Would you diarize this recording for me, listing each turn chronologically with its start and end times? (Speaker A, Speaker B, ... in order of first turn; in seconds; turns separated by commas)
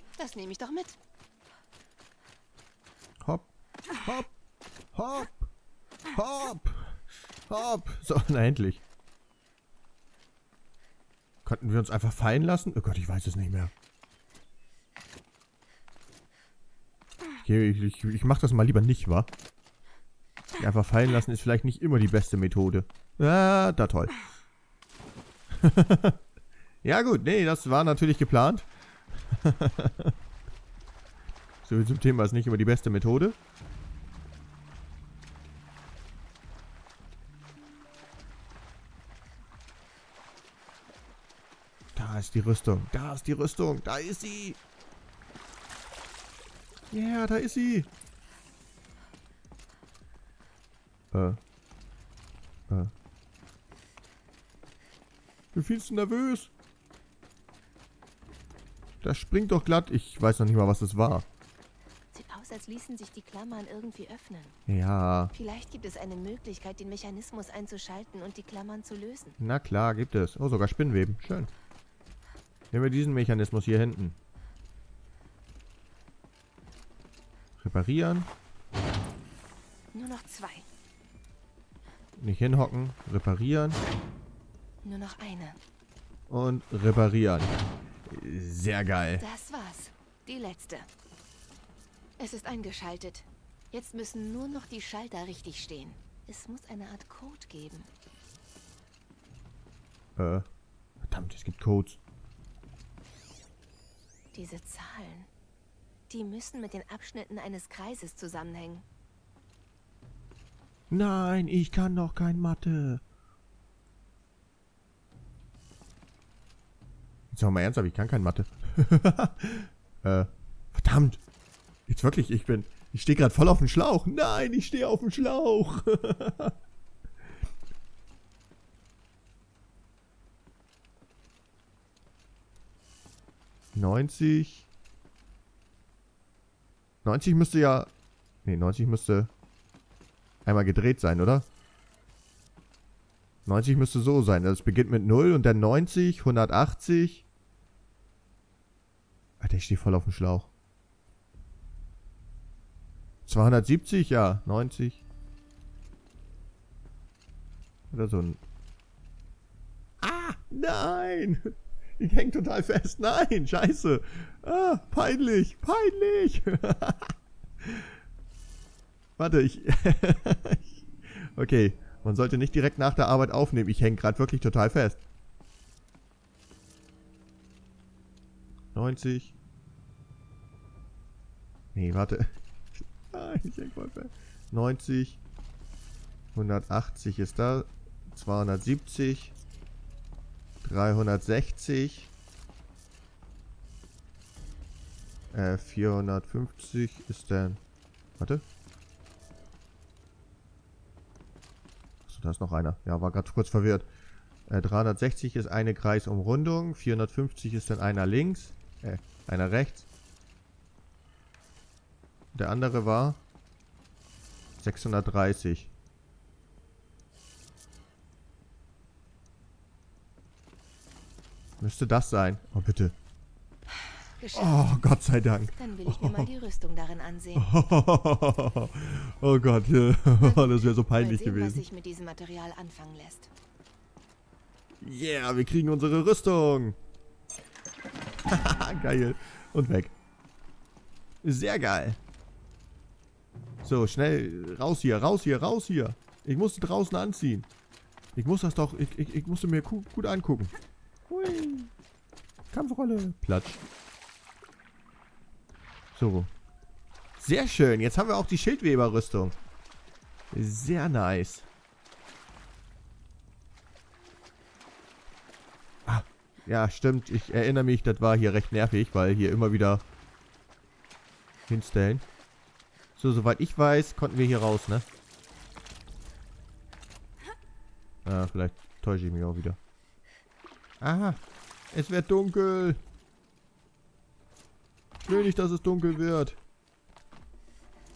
Speaker A: 0.2-1.0, Speaker B: 4.0-4.3, Speaker B: 4.9-5.5, Speaker B: 6.1-8.8, Speaker B: 11.4-13.7, Speaker B: 17.4-19.3, Speaker B: 20.6-24.1, Speaker B: 25.5-26.2, Speaker B: 26.8-28.7, Speaker B: 29.3-30.1, Speaker B: 31.6-33.4, Speaker B: 42.0-44.6, Speaker B: 46.9-47.9, Speaker B: 51.1-51.4, Speaker B: 55.5-56.5, Speaker B: 59.0-61.3, Speaker A: 62.1-64.6, Speaker B: 64.7-65.3, Speaker A: 65.3-69.4, Speaker B: 69.4-71.5, Speaker B: 72.7-74.2, Speaker B: 77.6-78.3, Speaker A: 79.9-80.7, Speaker B: 82.2-83.8, Speaker A: 84.8-85.6, Speaker B: 86.3-87.5, Speaker B: 88.1-89.2, Speaker A: 89.2-90.9, Speaker A: 92.2-97.9, Speaker B: 100.2-100.5, Speaker B: 101.0-102.0, Speaker A: 104.3-105.3, Speaker A: 106.1-108.8, Speaker B: 110.9-113.0, Speaker B: 117.3-121.2, Speaker B: 121.9-126.5, Speaker B: 133.7-134.7, Speaker B: 137.0-137.9, Speaker B: 138.4-139.3, Speaker B: 140.4-141.4, Speaker B: 143.4-147.2, Speaker B: 149.4-150.5, Speaker B: 153.3-155.0, Speaker B: 157.9-158.4, Speaker B: 160.0-167.9, Speaker B: 169.2-175.0, Speaker B: 178.8-179.4, Speaker B: 181.7-182.3, Speaker B: 183.1-185.2, Speaker B: 186.3-189.3, Speaker B: 190.6-192.1, Speaker B: 195.3-197.6, Speaker B: 198.2-198.4, Speaker B: 202.1-203.9, Speaker B: 204.5-209.9, Speaker B: 212.3-213.2, Speaker B: 214.6-215.7, Speaker B: 221.6-222.9, Speaker A: 224.2-224.8, Speaker B: 224.3-226.3, Speaker A: 225.6-227.4, Speaker B: 227.3-231.6, Speaker A: 230.2-233.3, Speaker B: 234.8-236.8, Speaker B: 238.3-239.9, Speaker B: 241.2-242.0, Speaker B: 243.6-247.5, Speaker B: 248.2-250.5, Speaker B: 251.1-251.7, Speaker B: 252.5-253.6, Speaker B: 255.9-256.3, Speaker B: 257.2-259.4, Speaker B: 260.3-261.5, Speaker B: 265.9-269.9, Speaker B: 271.5-272.0, Speaker B: 272.9-274.9, Speaker B: 278.1-279.6, Speaker B: 280.8-281.2, Speaker B: 281.7-282.8, Speaker B: 285.0-286.4